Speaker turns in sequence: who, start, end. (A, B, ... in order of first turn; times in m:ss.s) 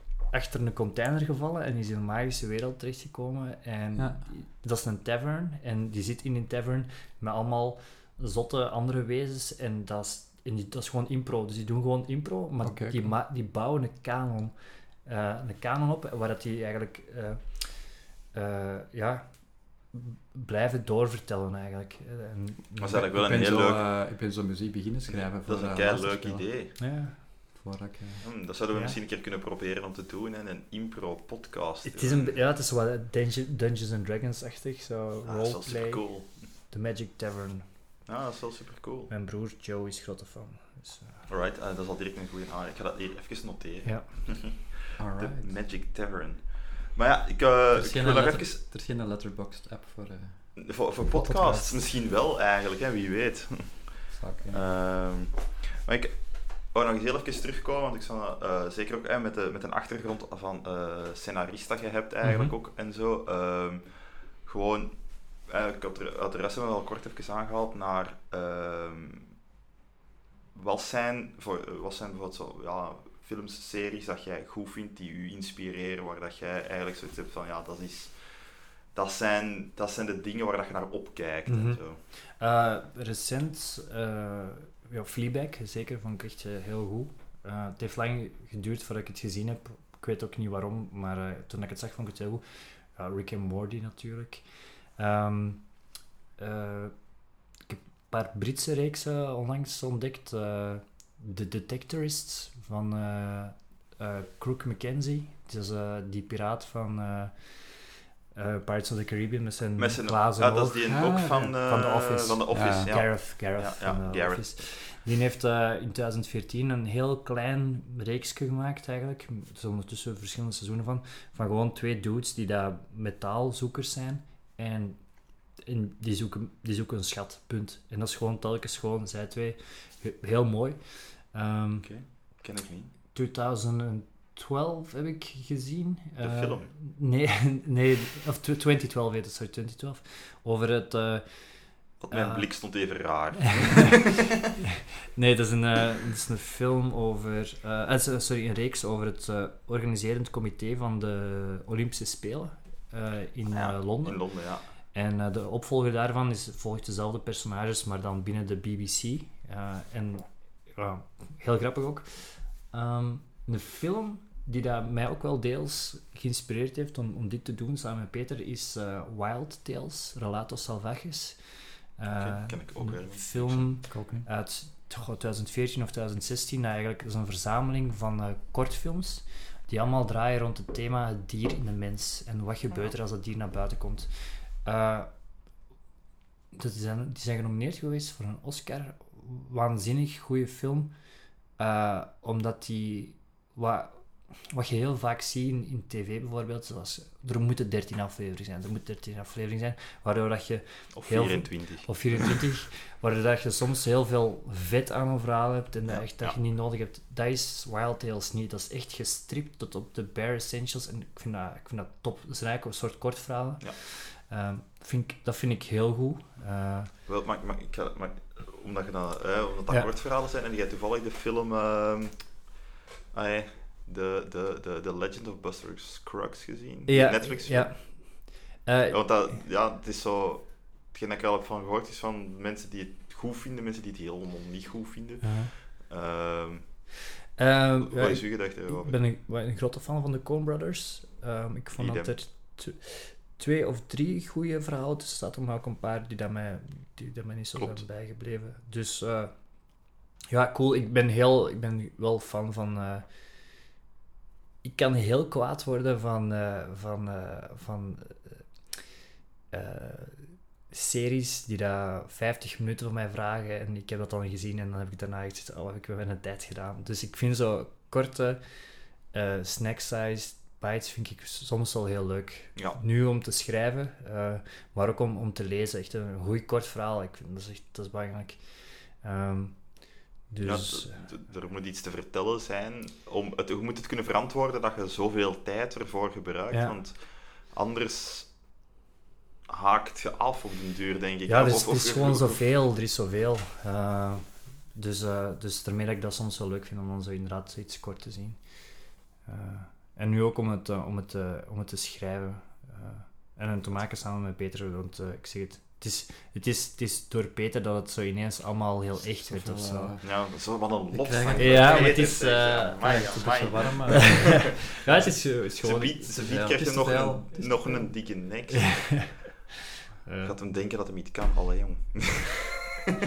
0:00.3-0:23.1 A
0:04.0-0:04.2 B
0:12.6-0:13.0 B
0:22.8-0:23.8 C
0:22.9-0:26.8 B
0:25.1-0:26.8 C
0:26.8-0:27.2 A
0:27.6-0:28.3 B
0:28.2-0:32.4 C
0:28.7-0:29.0 A
0:31.8-0:37.7 A
0:35.3-0:36.4 C
0:38.1-0:39.1 C
0:39.1-0:41.2 A
0:41.3-0:48.6 C
0:43.8-0:44.6 A
0:45.0-0:45.5 B
0:47.8-0:51.8 B
0:50.6-1:09.3 C
0:54.1-0:54.6 B
1:02.2-1:02.5 A
1:10.5-1:22.0 C
1:21.5-2:12.2 A
1:49.8-1:54.5 C
1:50.8-1:51.6 B
1:52.5-1:52.9 B
2:11.8-2:12.9 C
2:13.1-2:24.1 A
2:16.2-2:16.7 C
2:22.0-2:24.4 C
2:25.2-3:05.2 A
2:33.5-2:34.7 C
2:52.2-2:53.8 C
2:53.9-2:54.3 B
3:06.5-3:11.0 A
3:11.6-3:36.9 A
3:21.0-3:22.4 C
3:25.9-3:26.4 C
3:37.1-3:42.5 C
3:43.1-3:47.7 C
3:46.9-3:49.4 A
3:48.9-3:56.8 C
3:55.2-3:55.5 A
3:57.4-4:13.1 A
3:57.8-3:59.0 C
4:01.8-4:02.2 C
4:07.6-4:07.9 C
4:14.6-4:18.4 A
4:19.5-4:41.1 A
4:40.4-4:48.3 C
4:46.5-4:46.8 A
4:49.5-4:52.4 C
4:51.3-5:10.0 A
5:09.2-5:10.3 B
5:10.0-5:14.3 C
5:10.9-5:12.0 B
5:11.4-5:13.3 A
5:12.8-5:14.5 B
5:13.9-5:16.2 A
5:15.6-5:19.1 C
5:16.1-5:17.8 B
5:18.5-5:19.5 A
5:20.0-5:20.4 A
5:20.2-5:22.7 C